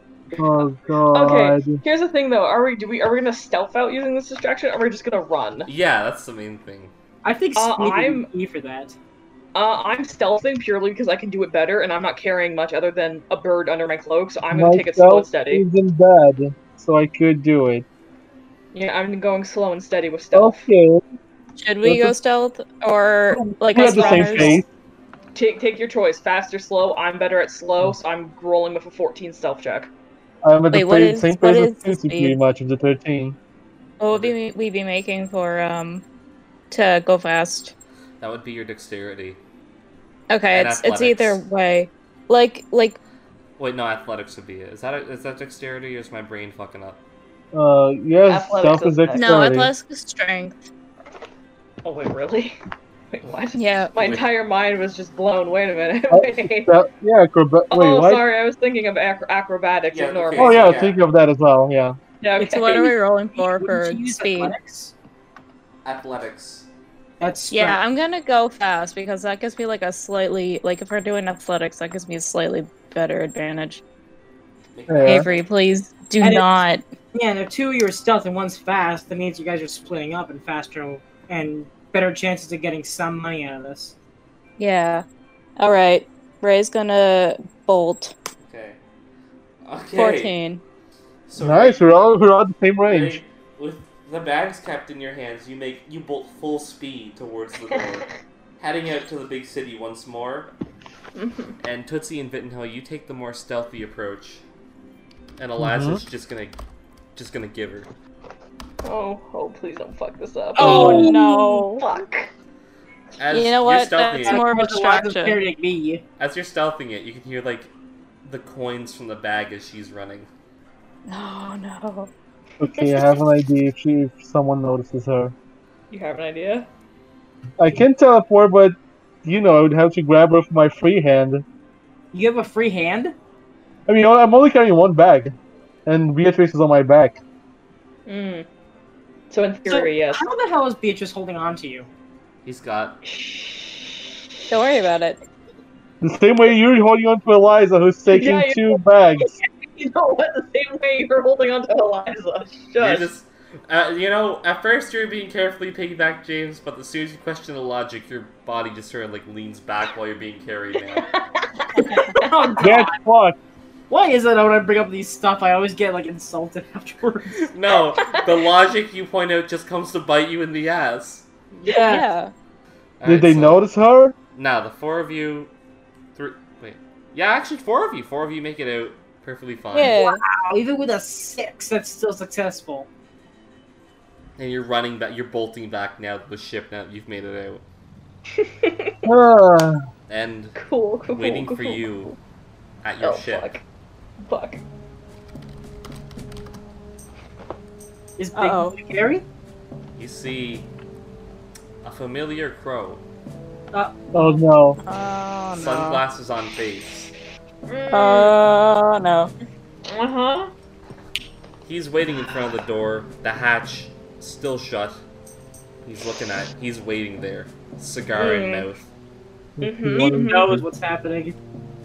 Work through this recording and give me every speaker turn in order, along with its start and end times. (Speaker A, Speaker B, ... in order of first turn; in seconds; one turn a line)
Speaker A: 0.3-1.8
Speaker B: 1.1-5.7
Speaker C: 5.6-6.9
Speaker D: 7.2-8.9
Speaker B: 7.5-8.3
Speaker B: 9.5-15.6
Speaker A: 14.5-17.8
Speaker B: 18.7-20.7
Speaker A: 20.3-21.0
Speaker E: 21.6-24.6
Speaker A: 21.8-22.1
Speaker A: 23.4-24.6
Speaker B: 23.7-24.6
Speaker B: 25.3-29.9
Speaker A: 30.4-33.4
Speaker E: 30.7-32.4
Speaker E: 34.0-36.0
Speaker C: 34.1-34.4
Speaker E: 36.7-37.7
Speaker C: 38.2-39.4
Speaker E: 40.3-43.0
Speaker C: 40.5-41.4
Speaker C: 43.6-47.0
Speaker A: 47.5-49.7
Speaker B: 48.2-49.4
Speaker E: 49.1-50.6
Speaker B: 51.8-52.5
Speaker B: 53.1-56.7
Speaker E: 53.5-53.9
Speaker C: 54.0-54.3
Speaker A: 56.1-58.2
Speaker B: 57.7-60.8
Speaker C: 59.9-61.0
Speaker A: 60.4-62.0
Speaker B: 62.2-62.9
Speaker D: 62.4-64.9
Speaker E: 62.4-64.5
Speaker C: 65.8-66.7
Speaker D: 67.2-67.8
Speaker E: 67.5-73.8
Speaker C: 74.7-75.4
Speaker A: 74.9-75.2
Speaker E: 75.0-76.8
Speaker D: 76.2-83.9
Speaker E: 84.6-85.0
Speaker E: 85.6-88.1
Speaker C: 88.4-88.8
Speaker C: 89.6-90.3
Speaker E: 89.9-90.6
Speaker C: 91.3-92.1
Speaker A: 91.4-93.2
Speaker C: 92.8-98.1
Speaker C: 98.6-100.5
Speaker B: 101.1-101.6
Speaker C: 101.6-104.4
Speaker C: 105.4-106.6
Speaker A: 105.6-106.0
Speaker C: 107.1-107.9
Speaker B: 108.8-112.3
Speaker E: 110.6-111.8
Speaker D: 110.6-111.5
Speaker A: 110.6-111.1
Speaker C: 113.2-114.4
Speaker E: 113.3-115.4
Speaker D: 114.2-116.0
Speaker C: 116.2-117.7
Speaker C: 118.2-120.3
Speaker E: 121.1-122.1
Speaker A: 122.6-125.3
Speaker B: 125.9-126.7
Speaker A: 127.6-131.4
Speaker D: 132.1-133.1
Speaker A: 133.9-135.3
Speaker A: 135.8-137.2
Speaker B: 138.1-138.4
Speaker B: 139.3-140.2
Speaker D: 139.7-141.9
Speaker C: 142.4-143.0
Speaker B: 143.0-144.2
Speaker E: 144.5-145.2
Speaker A: 146.0-149.3
Speaker B: 148.1-153.1
Speaker C: 152.8-161.1
Speaker B: 161.0-162.6
Speaker D: 161.8-162.9
Speaker A: 162.6-163.3
Speaker D: 163.9-167.5
Speaker C: 167.3-171.2
Speaker D: 171.5-172.1
Speaker E: 171.7-172.3
Speaker C: 173.0-173.6
Speaker A: 173.0-174.1
Speaker C: 174.3-175.5
Speaker C: 176.2-180.0
Speaker E: 179.7-180.2
Speaker D: 179.9-182.9
Speaker C: 184.4-187.6
Speaker B: 188.3-189.0
Speaker A: 189.0-189.8
Speaker C: 190.1-190.6
Speaker B: 190.6-192.0
Speaker C: 191.1-192.1
Speaker C: 192.8-193.5
Speaker B: 193.0-193.6
Speaker B: 194.2-194.6
Speaker D: 198.2-199.2
Speaker E: 198.3-198.8
Speaker C: 200.0-200.7
Speaker C: 201.8-203.0
Speaker D: 203.7-204.0
Speaker A: 204.1-204.8
Speaker E: 204.8-206.0
Speaker C: 205.5-207.1
Speaker B: 207.7-208.3
Speaker E: 207.9-209.3
Speaker B: 209.8-210.5
Speaker C: 211.6-215.0
Speaker C: 215.8-218.9
Speaker B: 218.2-218.7
Speaker A: 219.6-220.7
Speaker B: 219.6-220.5
Speaker D: 219.9-221.3